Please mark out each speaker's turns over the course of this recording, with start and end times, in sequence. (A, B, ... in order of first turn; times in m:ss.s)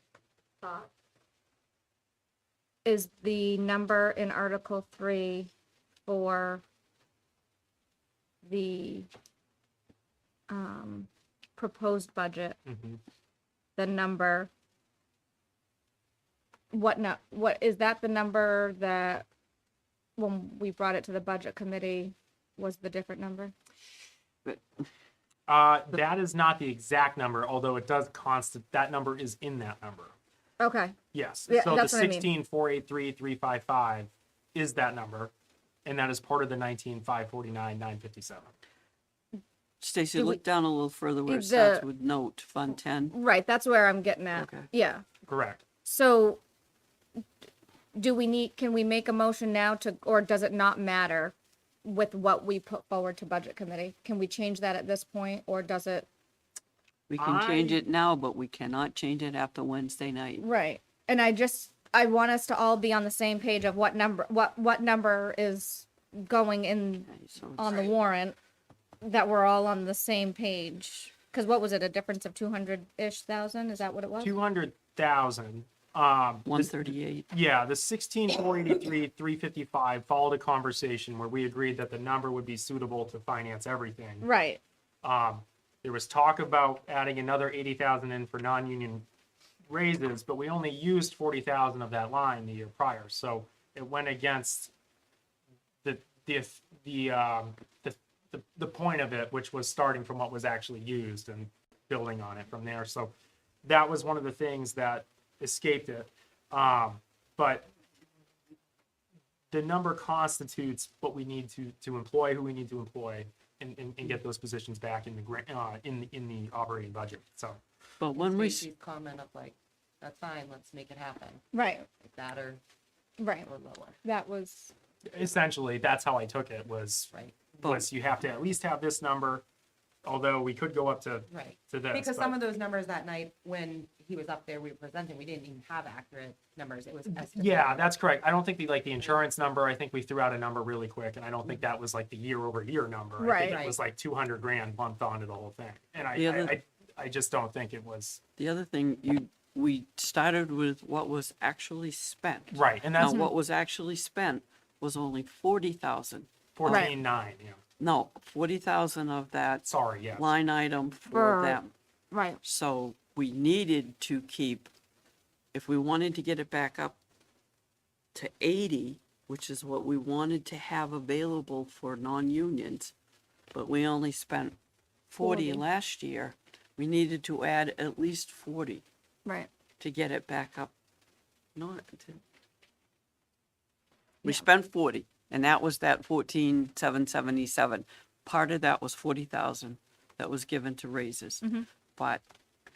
0:00.6-0:00.9 A
0:02.8-0:05.5 A
0:06.1-0:06.6 A
0:08.4-0:09.1 A
0:10.5-0:12.6 A
0:12.6-0:13.0 B
0:13.8-0:14.5 A
0:16.7-0:19.2 A
0:20.2-0:23.5 A
0:25.5-0:30.1 B
0:30.6-0:32.3 A
0:31.1-0:35.3 B
0:35.8-0:38.5 B
0:39.8-0:43.1 C
0:40.1-0:40.4 A
0:41.2-0:41.8 A
0:43.1-0:45.0 A
0:44.3-0:44.7 C
0:45.2-0:45.6 B
0:45.8-0:46.4 A
0:47.9-0:56.1 A
0:57.1-1:00.4 C
0:57.2-0:57.8 B
1:00.4-1:08.4 A
1:07.1-1:07.9 C
1:09.0-1:14.3 A
1:14.2-1:24.3 B
1:16.4-1:17.3 C
1:24.2-1:24.6 A
1:25.0-1:29.0 B
1:29.7-1:34.7 B
1:35.8-1:47.7 B
1:49.5-1:57.6 B
1:58.0-1:58.7 C
1:58.2-2:01.4 D
2:01.5-2:01.9 A
2:02.0-2:02.6 D
2:03.2-2:03.5 A
2:03.4-2:04.0 D
2:04.0-2:04.7 A
2:05.1-2:07.1 B
2:07.1-2:07.7 D
2:07.6-2:07.9 C
2:07.6-2:09.4 B
2:10.0-2:12.4 B
2:11.3-2:17.9 D
2:17.1-2:28.2 B
2:23.2-2:23.6 A
2:23.4-2:23.8 D
2:26.1-2:26.6 C
2:28.4-2:36.9 C
2:32.5-2:33.2 B
2:33.0-2:33.3 A
2:36.6-2:37.6 B
2:36.7-2:36.9 A
2:37.8-2:41.7 C
2:39.6-2:40.3 B
2:41.1-2:41.6 A
2:42.1-2:42.4 A
2:42.4-2:44.7 C
2:45.5-2:47.0 C
2:48.1-2:52.9 C
2:53.5-2:54.6 C
2:55.1-2:58.8 C
2:55.2-2:55.6 A
2:59.8-3:00.7 C
3:01.6-3:02.2 C
3:04.2-3:11.4 C
3:11.4-3:11.7 A
3:12.0-3:12.2 C